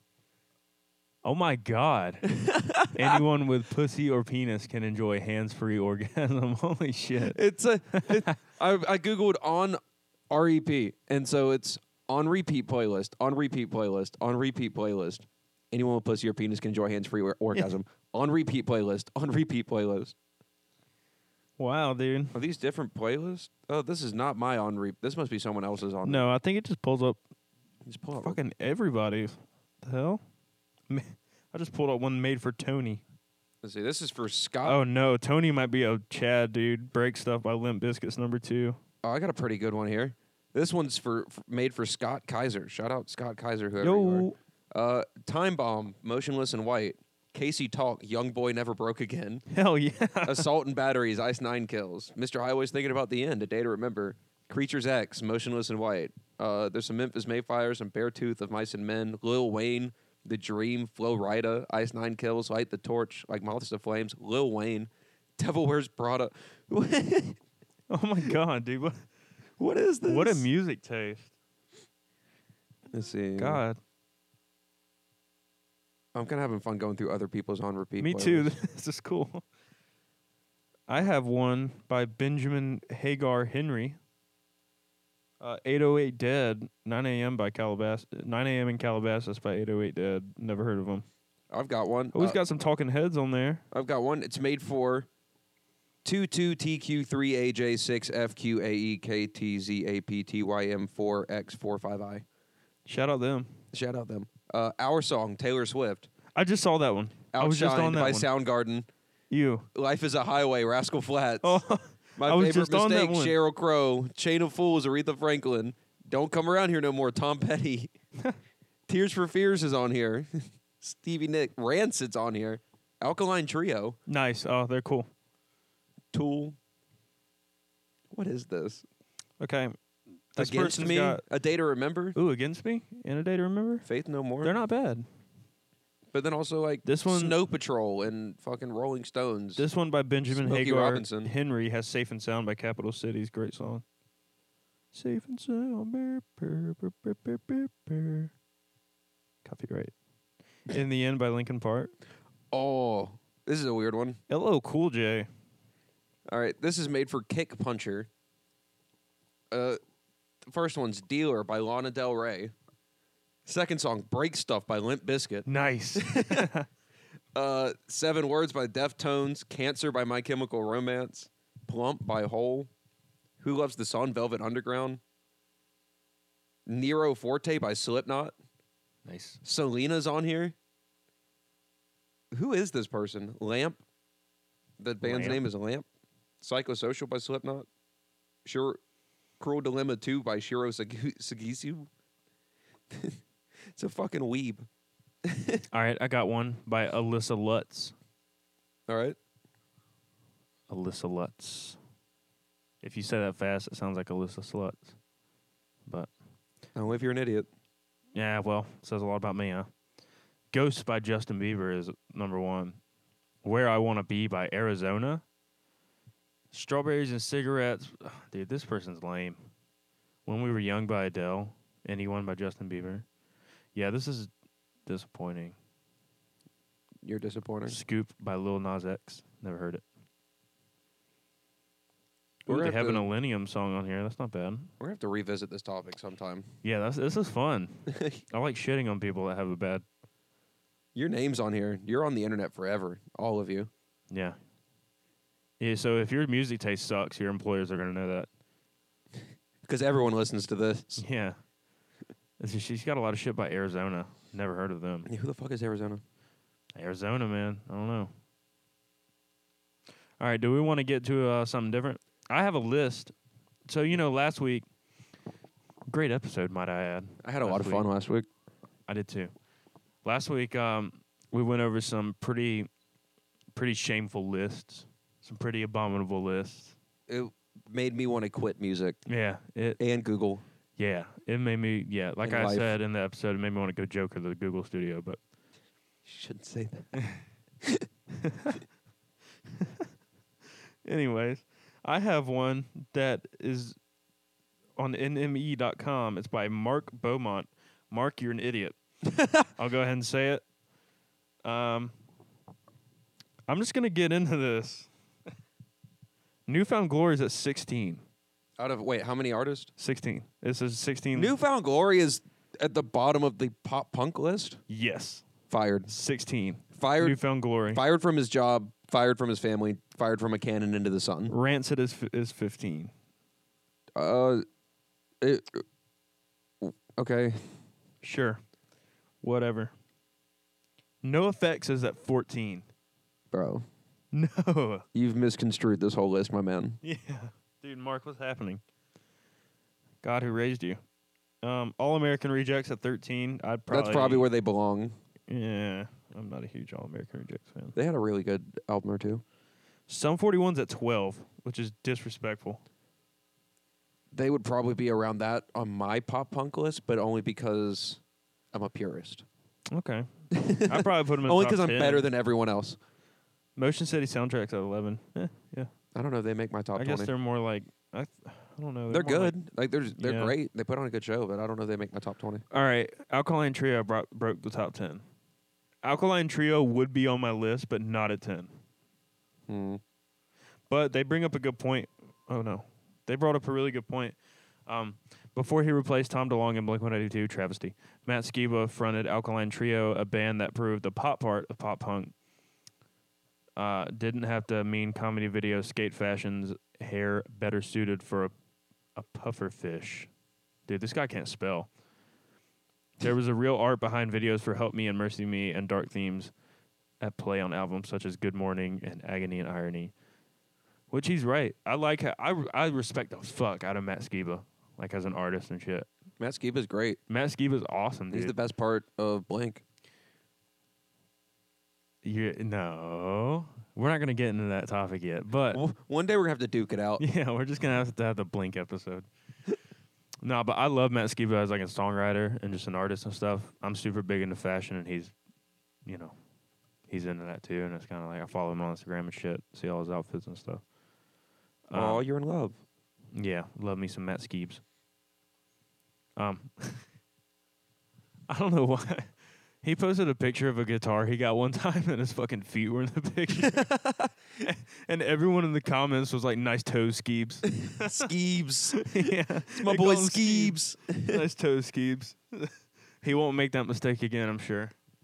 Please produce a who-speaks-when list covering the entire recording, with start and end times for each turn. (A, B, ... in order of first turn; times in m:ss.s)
0:01.2-0:02.3 A
0:02.2-0:03.2 B
0:02.9-0:07.4 A
0:07.2-0:09.8 B
0:07.9-0:08.3 A
0:10.3-0:20.2 B
0:21.6-0:22.4 A
0:22.3-0:26.3 B
0:26.0-0:27.2 A
0:27.8-0:28.4 B
0:28.2-0:30.2 A
0:30.9-0:33.0 A
0:33.6-0:34.8 B
0:34.6-0:38.8 A
0:39.0-0:49.4 B
0:43.8-0:44.4 A
0:49.5-0:50.5 A
0:50.2-1:07.4 B
1:07.9-1:09.0 A
1:09.6-1:10.5 B
1:10.1-1:11.3 A
1:12.9-1:13.6 B
1:13.4-1:13.8 A
1:16.2-1:18.5 B
1:18.0-1:19.4 A
1:20.9-1:24.0 A
1:25.4-1:31.1 A
1:31.5-1:32.4 B
1:32.1-1:33.6 A
1:33.7-1:35.1 B
1:36.0-1:42.2 B
1:42.9-1:43.6 A
1:43.7-1:46.1 B
1:46.4-1:48.3 A
1:47.3-1:48.9 B
1:49.3-1:49.7 A
1:49.8-1:51.6 B
1:51.4-1:53.4 A
1:52.2-1:57.9 B
1:58.9-2:04.0 B
2:04.1-2:05.1 A
2:06.1-2:06.6 B
2:08.1-2:08.8 B
2:09.4-2:09.8 A
2:10.3-2:11.2 A
2:10.4-2:12.2 B
2:12.2-2:13.9 A
2:13.8-2:14.5 B
2:14.4-2:15.0 A
2:16.1-2:19.7 B
2:16.8-2:17.4 A
2:19.6-2:23.8 A
2:20.3-2:21.3 B
2:24.9-2:28.3 A
2:29.4-2:29.9 A
2:30.7-2:31.9 A
2:32.5-2:34.2 B
2:34.3-2:35.3 A
2:36.3-2:38.1 B
2:39.5-2:39.8 B
2:40.5-2:42.5 B
2:43.5-2:46.5 B
2:45.5-2:46.7 A
2:47.4-2:52.7 B
2:53.4-2:55.0 B
2:56.7-2:58.4 B
2:59.1-2:59.4 A
2:59.4-3:00.6 B
3:02.3-3:03.8 B
3:04.8-3:05.9 B
3:05.0-3:05.4 A
3:06.4-3:07.7 B
3:08.4-3:08.8 B
3:09.4-3:11.9 B
3:12.9-3:13.2 B
3:13.7-3:14.7 B
3:15.2-3:15.6 B
3:15.7-3:17.9 A
3:18.9-3:19.2 B
3:20.7-3:21.8 A
3:22.8-3:25.0 A
3:26.8-3:27.5 B
3:28.2-3:29.7 A
3:30.5-3:32.8 A
3:33.4-3:35.2 A
3:36.5-3:39.4 A
3:40.3-3:43.1 A
3:43.8-3:44.3 A
3:44.9-3:45.6 A
3:47.0-3:47.8 B
3:47.7-3:49.8 A
3:52.5-3:54.7 A
3:52.5-3:53.1 B
3:54.8-3:56.5 B
3:56.6-3:59.8 A
3:57.9-3:58.2 B
4:01.0-4:03.7 B
4:04.1-4:04.4 A
4:05.6-4:08.3 A
4:09.6-4:11.0 B
4:11.0-4:11.4 A
4:12.4-4:15.1 A
4:15.1-4:16.0 B
4:16.8-4:18.1 A
4:20.2-4:23.1 A
4:23.7-4:24.7 A
4:25.9-4:27.9 A
4:27.2-4:28.3 B
4:28.9-4:29.3 A
4:30.0-4:32.7 A
4:33.5-4:36.8 A
4:37.1-4:39.0 B
4:39.1-4:39.8 A
4:39.8-4:40.4 B
4:40.8-4:45.2 A
4:42.2-4:42.7 B
4:46.0-4:46.9 B
4:47.0-4:47.2 A
4:48.1-4:48.6 A
4:49.6-4:49.9 A
4:50.8-4:53.8 A
4:54.8-4:58.8 A
4:59.5-5:00.4 A
5:01.4-5:01.9 A
5:03.5-5:04.9 A
5:06.5-5:08.0 A
5:08.6-5:09.7 B
5:09.8-5:11.4 A
5:11.2-5:14.6 B
5:14.7-5:15.3 A
5:15.5-5:15.9 B
5:15.9-5:17.8 A
5:16.8-5:17.2 B
5:17.7-5:21.3 B
5:21.3-5:22.9 A
5:24.0-5:24.4 B
5:25.2-5:25.6 B
5:26.6-5:27.5 B
5:28.0-5:28.4 A
5:29.2-5:29.7 A
5:31.0-5:32.6 A
5:33.3-5:33.6 B
5:34.1-5:34.8 A
5:34.9-5:36.8 B
5:36.8-5:38.6 A
5:40.0-5:40.8 A
5:41.4-5:44.3 A
5:43.7-5:44.9 B
5:45.3-5:47.8 A
5:47.8-5:49.2 B
5:49.9-5:52.6 A
5:54.1-5:58.0 B
5:58.5-5:59.2 B
5:59.7-6:02.1 A
6:00.3-6:02.8 B
6:03.6-6:05.7 A
6:05.9-6:07.1 B
6:06.8-6:09.4 A
6:08.9-6:12.4 B
6:10.0-6:10.3 A
6:12.5-6:15.0 A
6:15.8-6:18.5 A
6:19.5-6:19.8 B
6:20.7-6:32.1 A
6:33.6-6:38.3 A
6:39.0-6:40.1 A
6:40.7-6:41.7 A
6:43.0-6:46.3 A
6:47.0-6:49.9 A
6:50.9-6:55.9 A
6:56.2-6:57.0 B
6:57.1-6:58.3 A
6:58.1-6:59.6 B
7:02.0-7:05.6 A
7:05.5-7:07.0 B
7:07.0-7:09.1 A
7:10.2-7:15.1 A
7:15.9-7:16.2 A
7:16.9-7:20.6 A
7:21.7-7:22.0 A
7:21.7-7:22.6 B
7:23.2-7:24.6 A
7:26.2-7:26.8 A
7:28.3-7:29.1 A
7:29.6-7:33.8 A
7:33.4-7:34.1 B
7:34.4-7:38.1 A
7:37.6-7:41.2 B
7:38.8-7:44.7 A